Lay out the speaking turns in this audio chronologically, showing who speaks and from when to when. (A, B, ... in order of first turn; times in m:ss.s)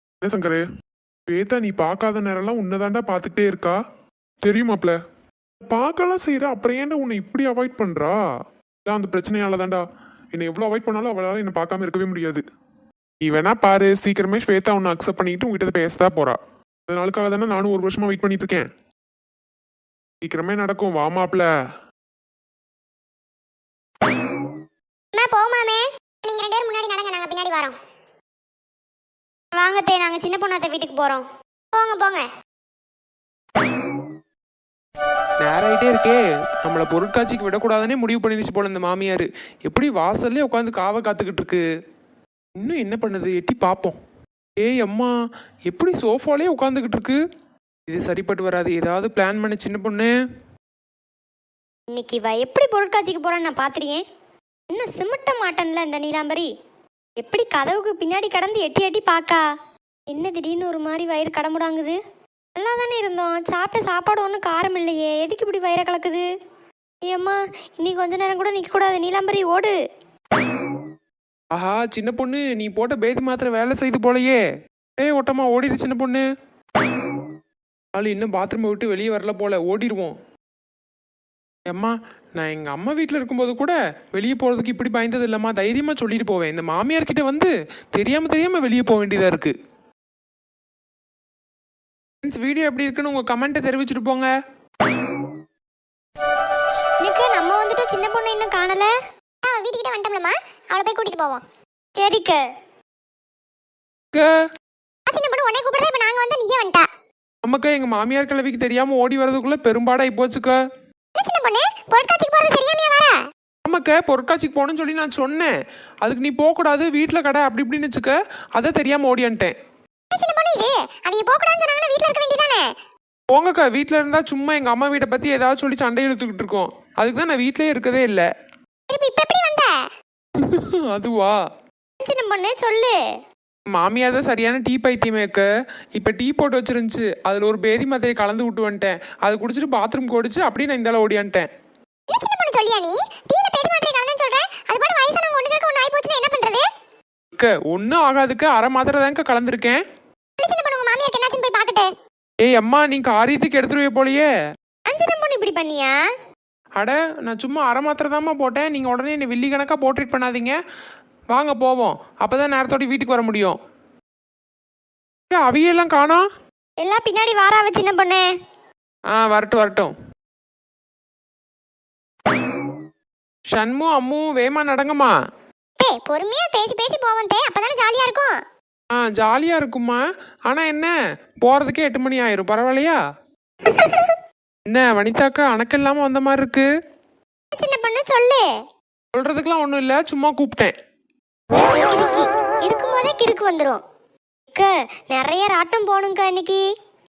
0:00.2-0:00.6 A
0:01.3-0:03.8 A
0:04.4-0:05.0 A
0:05.6-0:08.2 A
0:08.8-0:12.4 A
0:13.2-0:18.7 A
0:20.2-0:21.5 A
0:25.1-0:27.7 B
0:29.5-0:32.2 B
0:35.4-0:41.6 C
0:42.6-0:44.0 C
0:44.6-0:45.1 C
0:45.7-0:47.2 C
0:47.9-0:50.1 C
0:51.9-0:54.0 B
0:54.7-0:56.5 B
0:57.2-0:59.4 B
1:00.1-1:02.0 B
1:02.6-1:06.2 B
1:07.0-1:09.8 B
1:11.5-1:14.4 C
1:15.0-1:16.2 C
1:17.9-1:20.2 C
1:21.7-1:29.6 C
1:32.2-1:34.3 C
1:37.0-1:38.9 B
1:39.5-1:41.4 B
1:42.0-1:42.4 B
1:45.1-1:46.8 B
1:47.4-1:50.6 C
1:51.2-1:53.1 B
1:53.6-1:59.6 C
2:00.1-2:02.7 B
2:03.3-2:08.3 C
2:08.9-2:09.7 B
2:10.4-2:11.4 C
2:12.0-2:13.0 B
2:13.7-2:21.5 C
2:22.1-2:26.6 B
2:27.3-2:29.8 C
2:30.4-2:31.8 B
2:32.4-2:34.3 C
2:34.9-2:36.0 B
2:36.8-2:40.6 C
2:41.3-2:43.6 C
2:45.3-2:46.2 C
2:46.8-2:48.3 B
2:49.1-2:49.9 C
2:53.5-2:55.1 C
2:55.8-2:58.4 B
2:58.9-3:03.0 C
3:04.7-3:06.7 C
3:07.5-3:08.5 B
3:09.1-3:10.7 C
3:11.5-3:13.8 B
3:14.5-3:16.6 B